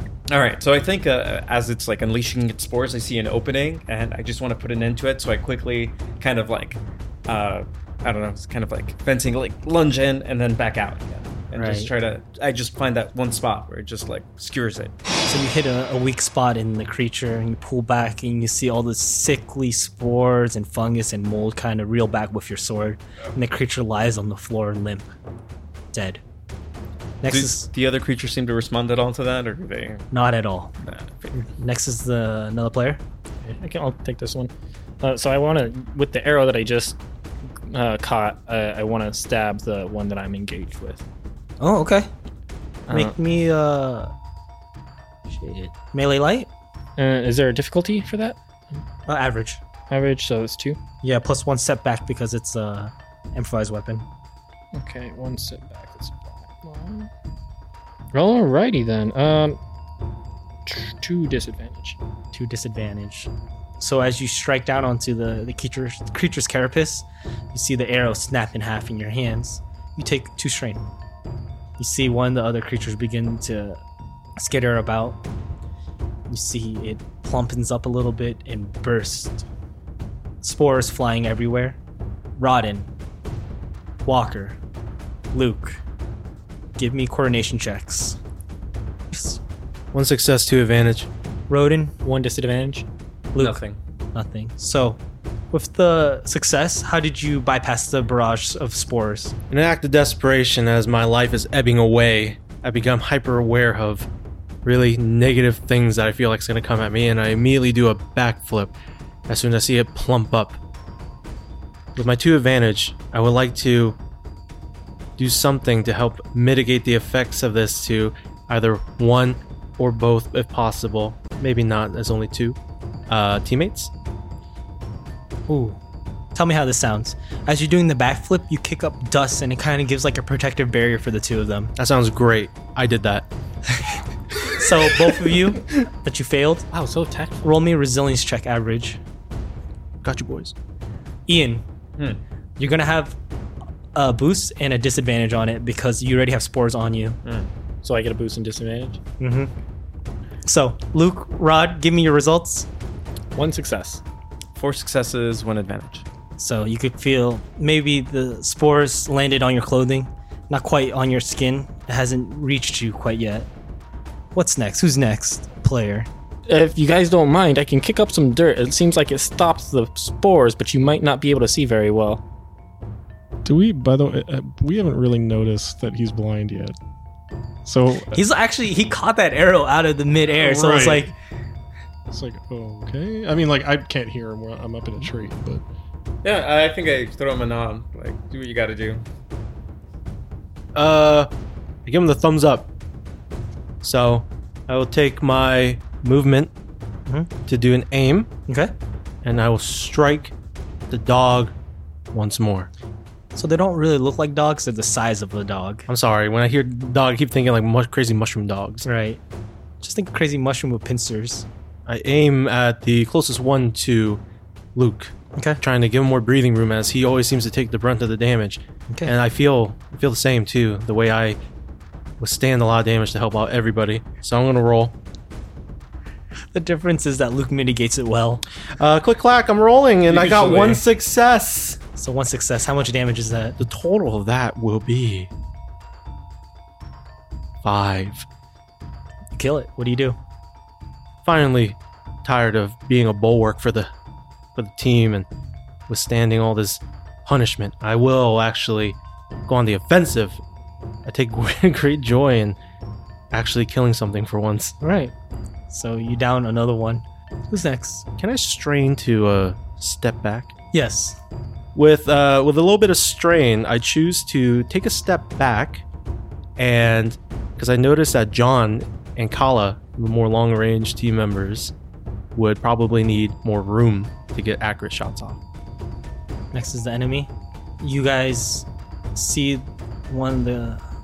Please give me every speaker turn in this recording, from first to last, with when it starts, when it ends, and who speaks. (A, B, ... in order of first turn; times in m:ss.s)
0:00.3-0:14.9 A
0:11.5-0:11.9 B
0:15.2-0:25.1 B
0:25.9-0:26.2 B
0:27.2-0:27.7 B
0:27.3-0:30.1 A
0:30.1-0:30.7 B
0:30.8-0:31.3 A
0:31.3-0:33.0 B
0:33.4-0:37.0 C
0:37.7-0:41.0 C
0:41.6-0:42.1 B
0:42.9-0:43.1 C
0:42.9-0:44.1 B
0:45.3-0:46.5 B
0:47.0-0:48.8 C
0:49.1-0:49.6 B
0:49.9-0:50.8 C
0:51.0-0:54.0 B
0:54.7-0:57.1 C
0:58.1-0:59.6 C
1:00.6-1:02.0 C
1:02.3-1:10.8 B
1:11.8-1:13.8 B
1:14.4-1:15.2 B
1:16.3-1:19.4 B
1:20.4-1:21.8 B
1:22.4-1:22.9 B
1:24.0-1:24.6 B
1:25.3-1:25.8 B
1:26.8-1:28.2 B
1:29.1-1:29.4 B
1:29.9-1:31.1 D
1:31.5-1:32.0 B
1:32.0-1:32.9 C
1:33.3-1:33.6 B
1:33.4-1:33.8 A
1:34.1-1:35.0 B
1:35.5-1:39.3 B
1:39.5-1:44.1 D
1:44.6-1:48.7 D
1:49.3-1:50.6 D
1:52.0-1:54.0 D
1:55.2-2:02.6 D
2:03.1-2:03.9 D
2:05.5-2:05.8 B
2:06.3-2:11.7 B
2:11.8-2:13.3 D
2:14.5-2:16.7 B
2:16.7-2:17.5 C
2:17.4-2:19.0 B
2:20.0-2:20.5 D
2:21.3-2:21.6 B
2:22.6-2:23.2 B
2:23.9-2:27.2 B
2:27.2-2:27.5 A
2:27.8-2:29.0 C
2:29.2-2:29.5 B
2:30.4-2:32.7 B
2:33.3-2:34.0 C
2:34.6-2:36.0 A
2:36.4-2:43.5 B
2:44.3-2:46.1 B
2:46.5-2:52.2 C
2:53.4-2:56.8 E
2:57.6-2:58.2 E
2:58.1-3:01.1 B
3:00.4-3:01.1 E
3:02.1-3:05.6 E
3:06.2-3:09.0 A
3:10.7-3:11.3 D
3:11.8-3:12.7 D
3:13.8-3:16.5 D
3:17.4-3:18.3 D
3:18.5-3:18.7 B
3:19.2-3:20.3 D
3:20.9-3:21.5 D
3:22.1-3:22.7 D
3:23.3-3:25.9 B
3:25.9-3:28.8 D
3:28.8-3:29.2 B
3:29.8-3:31.4 B
3:31.8-3:34.2 D
3:34.7-3:41.4 D
3:42.2-3:45.0 D
3:46.5-3:48.4 B
3:48.8-3:51.8 D
3:50.1-3:50.8 A
3:52.0-3:53.6 B
3:53.6-3:55.3 D
3:57.6-3:58.2 D
3:59.3-4:00.2 B
4:01.2-4:03.9 D
4:04.6-4:05.3 D
4:05.9-4:10.4 D
4:11.0-4:12.6 D
4:13.3-4:14.8 D
4:14.8-4:15.1 B
4:15.7-4:18.0 B
4:18.2-4:20.5 D
4:20.7-4:21.2 B
4:21.7-4:25.8 D
4:26.6-4:31.7 D
4:32.3-4:35.4 D
4:36.5-4:40.8 B